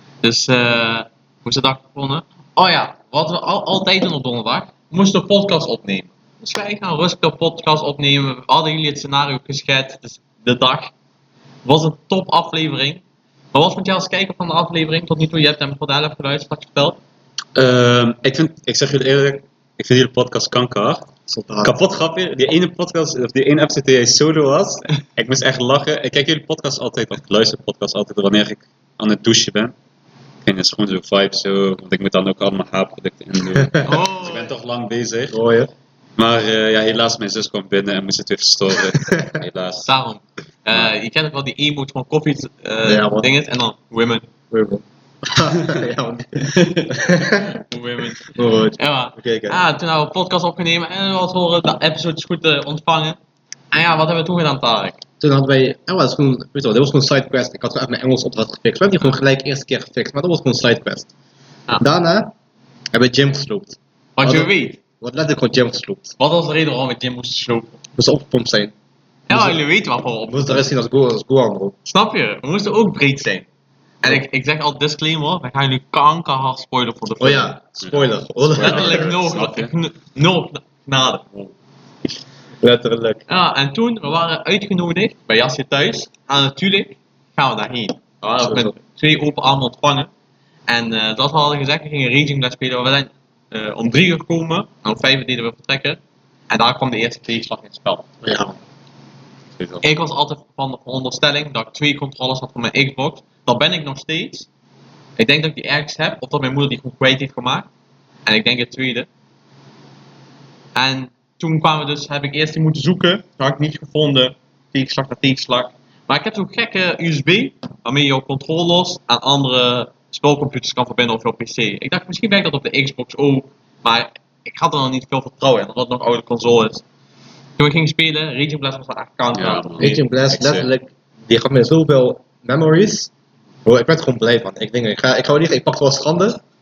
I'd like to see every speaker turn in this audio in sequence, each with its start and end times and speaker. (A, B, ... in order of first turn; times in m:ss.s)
0:00.2-0:10.9 A
0:11.6-0:13.0 A
0:13.5-0:17.0 A
0:17.5-0:21.1 B
0:21.3-0:21.8 C
0:21.6-0:29.7 B
0:30.4-0:35.4 B
0:33.8-0:34.5 A
0:35.3-0:35.7 C
0:36.2-0:39.9 B
0:39.8-0:44.3 A
0:42.8-0:43.3 C
0:44.5-0:47.6 C
0:46.4-0:53.2 A
0:48.1-0:49.6 C
0:53.7-0:55.0 A
0:55.2-1:01.1 C
1:01.8-1:02.3 C
1:02.9-1:06.1 C
1:04.2-1:04.8 A
1:06.2-1:07.7 A
1:08.0-1:08.7 C
1:09.3-1:10.6 A
1:09.3-1:09.6 C
1:10.3-1:11.7 C
1:11.8-1:13.4 A
1:14.0-1:17.5 A
1:17.2-1:19.1 C
1:17.8-1:19.7 B
1:18.6-1:21.3 A
1:22.6-1:23.2 C
1:23.3-1:30.1 A
1:28.4-1:28.7 C
1:30.7-1:38.1 A
1:38.2-1:38.6 C
1:39.8-1:44.5 A
1:45.2-1:47.7 A
1:48.2-1:49.1 A
1:50.7-2:06.8 A
2:07.6-2:10.0 A
2:09.3-2:10.7 B
2:09.8-2:13.1 C
2:13.6-2:16.4 C